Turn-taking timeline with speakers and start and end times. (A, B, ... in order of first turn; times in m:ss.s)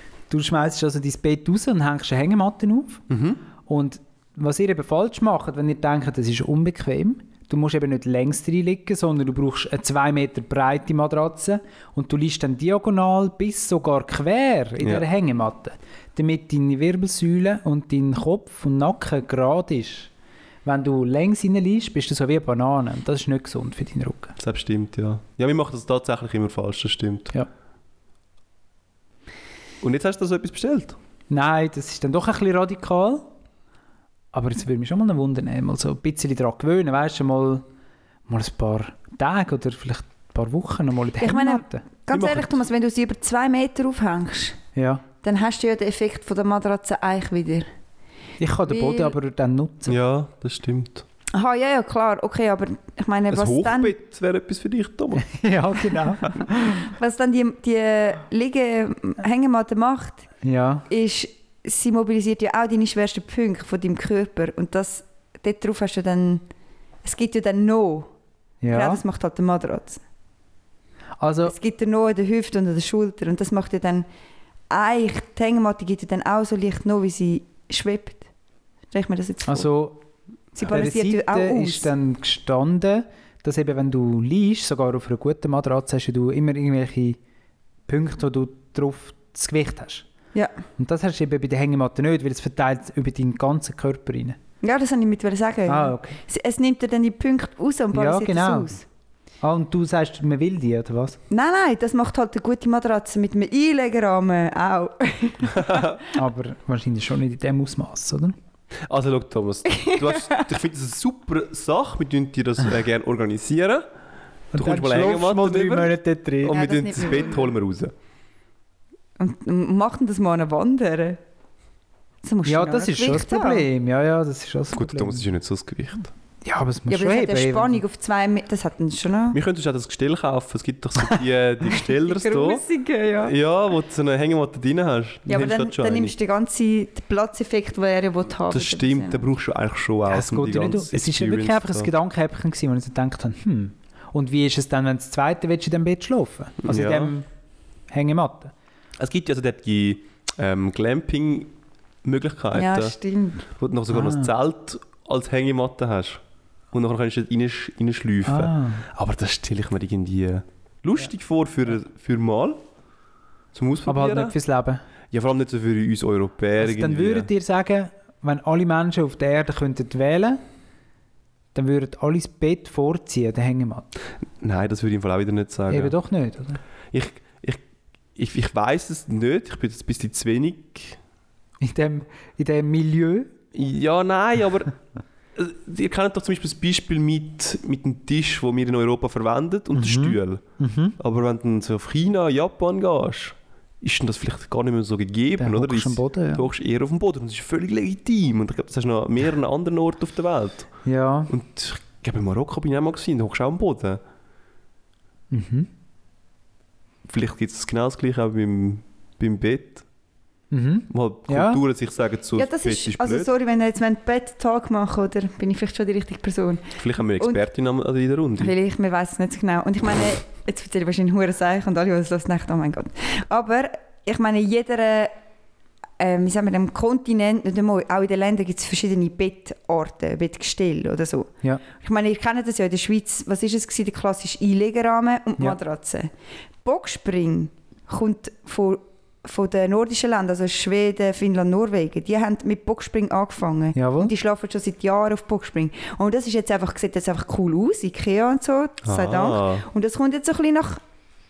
0:00.3-0:03.0 A
0:03.1-0:03.4 B
0:03.6-0:20.1 A
0:20.6-0:24.4 A
0:24.4-0:27.3 B
0:29.8-0:31.0 B
0:31.3-0:33.3 A
0:34.3-0:37.6 A
0:38.3-0:41.8 A
0:41.2-0:44.6 C
0:42.1-0:42.6 B
0:44.8-0:45.0 A
0:45.2-0:47.7 C
0:48.4-0:50.0 A
0:48.7-0:49.1 C
0:49.8-0:51.0 B
0:51.3-0:54.0 C
0:53.3-0:55.3 B
0:55.2-0:56.8 A
0:56.8-1:00.3 C
1:00.4-1:00.8 A
1:00.9-1:06.4 C
1:07.0-1:08.1 C
1:08.6-1:09.0 A
1:08.7-1:10.0 C
1:11.2-1:11.5 A
1:11.4-1:14.0 C
1:14.7-1:18.2 C
1:18.9-1:19.7 C
1:19.4-1:20.0 A
1:20.5-1:21.9 C
1:20.6-1:27.2 A
1:27.9-1:30.0 A
1:30.8-1:34.4 A
1:34.6-1:38.8 C
1:35.7-1:36.2 A
1:37.9-1:38.7 A
1:39.4-1:41.2 A
1:41.3-1:45.9 C
1:45.5-1:46.0 B
1:46.1-1:48.4 A
1:48.8-1:53.9 B
1:49.7-1:50.4 C
1:54.5-1:56.8 A
1:54.5-1:57.9 B
1:56.4-1:57.5 C
1:59.2-2:01.2 C
2:02.2-2:03.6 C
2:02.4-2:05.2 A
2:04.7-2:06.1 B
2:06.4-2:07.8 A
2:06.9-2:09.4 C
2:09.3-2:12.6 B
2:11.9-2:13.3 C
2:13.2-2:16.1 B
2:15.3-2:19.3 C
2:18.5-2:21.9 B
2:20.1-2:27.2 A
2:26.6-2:27.1 B
2:27.9-2:28.5 A
2:29.0-2:31.5 B
2:32.0-2:32.9 B
2:32.5-2:33.5 C
2:33.6-2:42.6 B
2:33.9-2:34.3 A
2:38.2-2:38.8 A
2:43.5-2:44.4 B
2:43.9-2:44.8 A
2:45.1-2:47.3 B
2:46.6-2:50.4 A
2:51.5-2:53.9 A
2:54.4-2:55.9 B
2:55.7-2:56.6 A
2:56.9-2:57.6 B
2:58.2-3:01.0 B
3:01.6-3:03.3 A
3:03.5-3:04.7 B
3:05.3-3:10.4 B
3:09.7-3:11.0 A
3:11.0-3:20.7 B
3:15.4-3:16.5 A
3:20.8-3:21.3 A
3:21.3-3:24.0 B
3:25.3-3:25.7 A
3:27.1-3:29.8 B
3:30.5-3:31.6 A
3:30.9-3:33.3 B
3:32.3-3:37.4 C
3:36.8-3:38.5 B
3:38.4-3:45.1 C
3:46.0-3:56.1 C
3:56.6-4:10.8 C
4:03.7-4:04.1 A
4:08.8-4:09.6 B